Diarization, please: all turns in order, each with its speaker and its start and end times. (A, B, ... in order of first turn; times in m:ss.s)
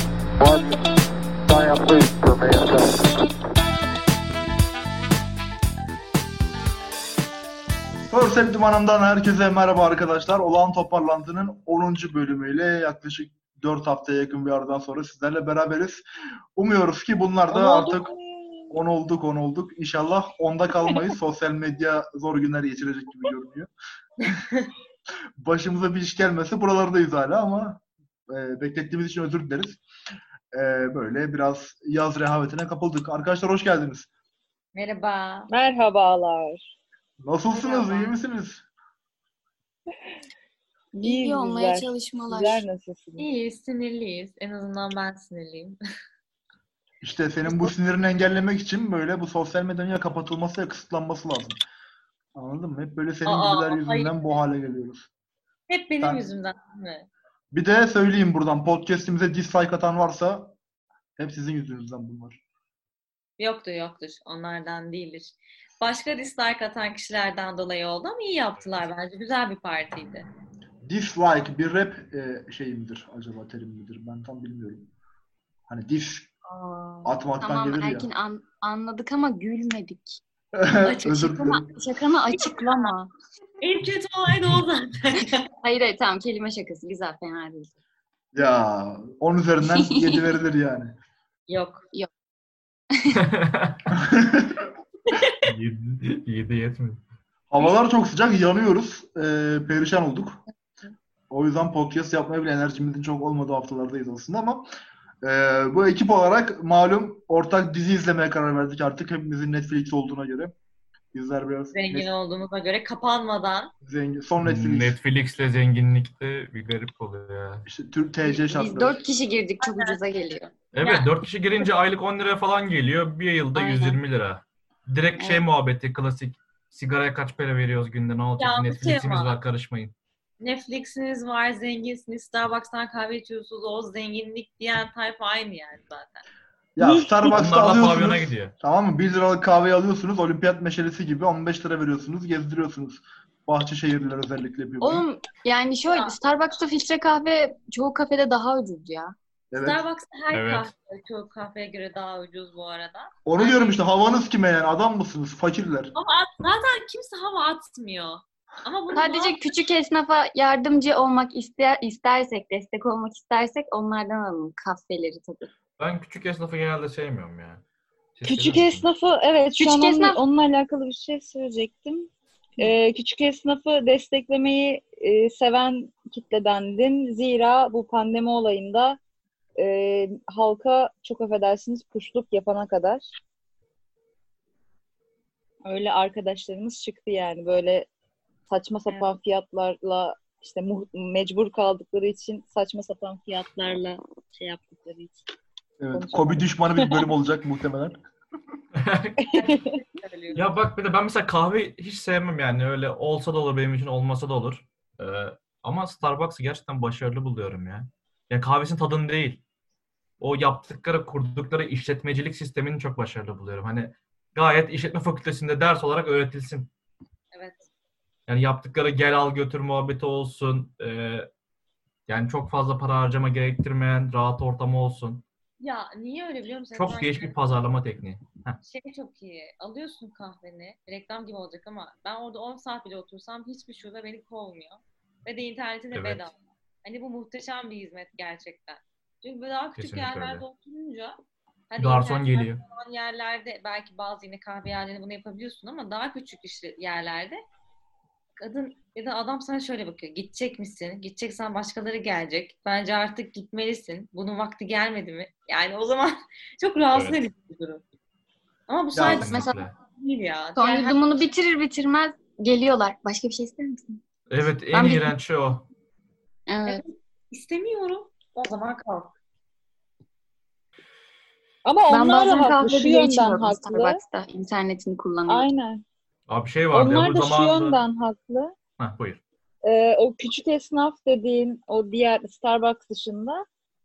0:00.4-0:03.2 A
0:08.1-0:16.0 B
0:16.6-0:18.1 B
0:17.5-0:18.5 C
0:18.7-0:23.7 B
0:25.4-0:29.8 B
0:30.5-0:34.1 B
0:34.8-0:35.5 D
0:35.5-0:36.6 C
0:37.2-0:38.6 B
0:37.5-0:38.2 D
0:40.9-0:42.6 E
0:41.0-0:43.3 C
0:43.2-0:45.8 D
0:47.0-0:51.6 B
0:47.5-0:47.7 D
0:52.4-0:55.1 B
0:53.2-0:54.1 D
0:55.7-0:57.1 D
0:57.5-1:00.6 B
1:01.2-1:02.4 B
1:03.4-1:10.3 D
1:10.8-1:14.9 B
1:15.7-1:16.3 B
1:16.5-1:20.2 E
1:17.0-1:18.1 B
1:20.5-1:21.7 B
1:20.8-1:23.1 E
1:22.3-1:22.9 D
1:23.6-1:25.5 D
1:25.6-1:27.7 E
1:28.3-1:31.0 B
1:29.7-1:30.2 E
1:31.5-1:31.8 D
1:32.9-1:33.2 E
1:33.2-1:33.8 F
1:33.9-1:34.6 B
1:35.1-1:35.4 D
1:35.4-1:37.0 F
1:37.5-1:40.4 B
1:41.3-1:44.7 B
1:45.2-1:50.5 B
1:51.1-1:52.1 B
1:51.7-1:53.7 D
1:53.8-1:55.0 B
1:54.4-1:57.7 F
1:57.7-1:59.0 B
1:58.2-2:00.5 E
1:59.6-2:00.0 D
2:00.7-2:10.0 F
2:00.8-2:01.1 D
2:03.6-2:04.0 E
2:05.2-2:05.4 E
2:08.4-2:09.4 D
2:10.4-2:16.2 D
2:16.8-2:25.0 B
2:16.8-2:17.3 C
2:17.2-2:18.5 F
2:24.8-2:29.2 E
2:29.5-2:29.8 B
2:29.6-2:33.8 D
2:30.3-2:30.7 F
2:33.3-2:35.9 B
2:35.9-2:39.5 D
2:38.9-2:45.5 E
2:45.8-2:47.6 F
2:48.2-2:48.9 F
2:48.2-2:59.0 C
2:49.6-2:50.2 E
2:59.6-3:03.2 C
3:05.6-3:07.9 C
3:08.5-3:15.2 C
3:15.8-3:18.0 B
3:15.9-3:17.0 C
3:18.8-3:19.3 F
3:19.2-3:19.8 C
3:19.3-3:20.6 D
3:20.3-3:29.4 F
3:30.2-3:36.7 F
3:37.3-3:37.7 D
3:38.3-3:41.3 F
3:42.1-3:45.2 F
3:45.6-3:47.4 D
3:46.8-3:48.6 F
3:48.6-4:01.2 D
3:55.9-3:56.2 F
3:59.8-4:00.4 F
4:01.7-4:07.4 D
4:01.8-4:02.6 F
4:08.4-4:17.8 D
4:16.9-4:17.2 F
4:18.7-4:21.1 D
4:18.9-4:19.5 B
4:19.0-4:19.8 F
4:20.6-4:24.0 E
4:24.3-4:25.7 F
4:24.7-4:25.2 E
4:26.5-4:26.8 E
4:26.6-4:29.2 D
4:31.6-4:34.0 C
4:31.9-4:35.5 E
4:35.3-4:35.8 C
4:36.3-4:37.8 F
4:36.7-4:38.5 C
4:38.8-4:39.2 F
4:39.6-4:43.4 C